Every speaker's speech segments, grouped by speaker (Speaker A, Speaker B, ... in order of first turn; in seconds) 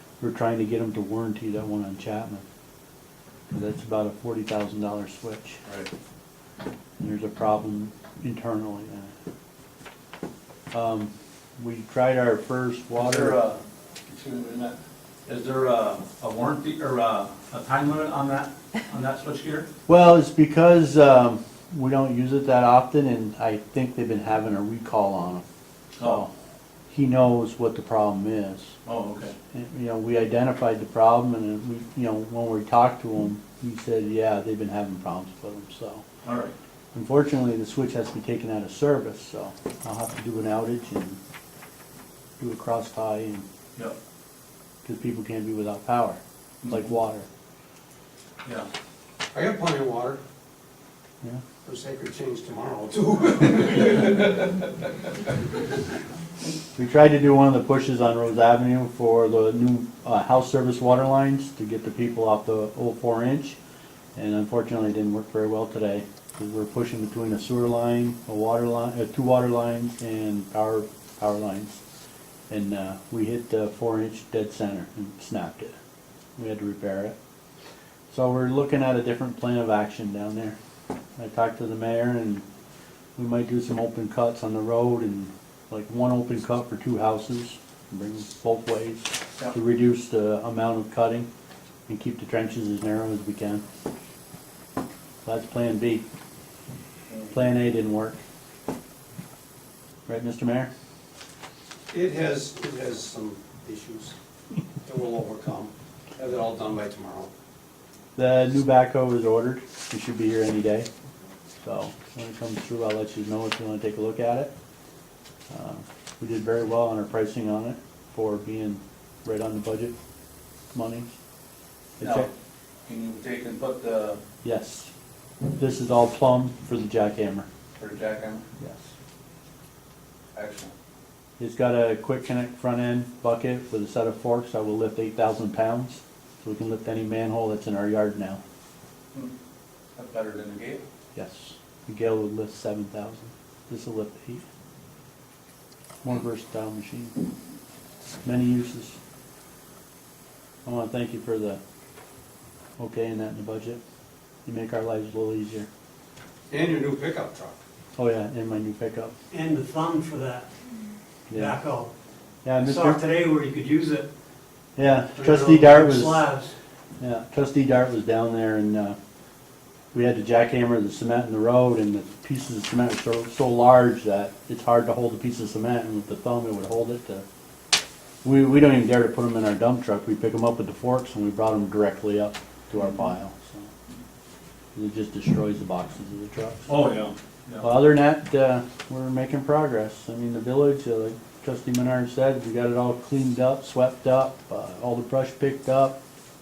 Speaker A: 0.2-2.4, 3.5-5.6, 7.0-9.1, 10.7-13.4, 19.9-25.4, 26.0-26.3, 26.9-28.8, 29.5-36.0, 36.9-41.2, 42.4-43.5, 44.8-47.3, 56.8-63.6, 64.2-71.8, 72.5-75.8, 76.4-77.2, 78.1-80.6, 81.2-82.4, 83.2-91.3, 91.9-93.6, 95.2-96.0, 97.3-98.2, 100.1-100.7, 108.2-110.9, 111.6-114.5, 115.5-119.9, 120.7-121.1, 122.0-122.3, 124.4-124.9, 125.5-127.5, 128.6-128.9, 131.4-138.4, 141.1-144.4, 146.0-147.2, 148.2-149.0, 150.6-151.6, 152.8-153.8, 154.4-155.7, 158.0-159.1, 161.3-161.6, 162.4-163.1, 164.8-166.3, 167.0-169.0, 169.9-177.2, 178.2-183.7, 184.7-186.6, 187.6-196.0
Speaker B: 12.9-19.7, 26.0-26.3, 28.9-29.3, 36.2-36.5, 122.0-122.3, 122.8-124.2, 127.8-128.4, 130.3-130.7, 139.9-140.8, 186.7-187.6
Speaker C: 49.3-50.2, 51.6-54.7, 101.9-104.1, 104.8-107.3, 156.5-157.6
Speaker D: 159.3-160.5, 161.3-161.9, 162.6-164.1, 165.1-166.6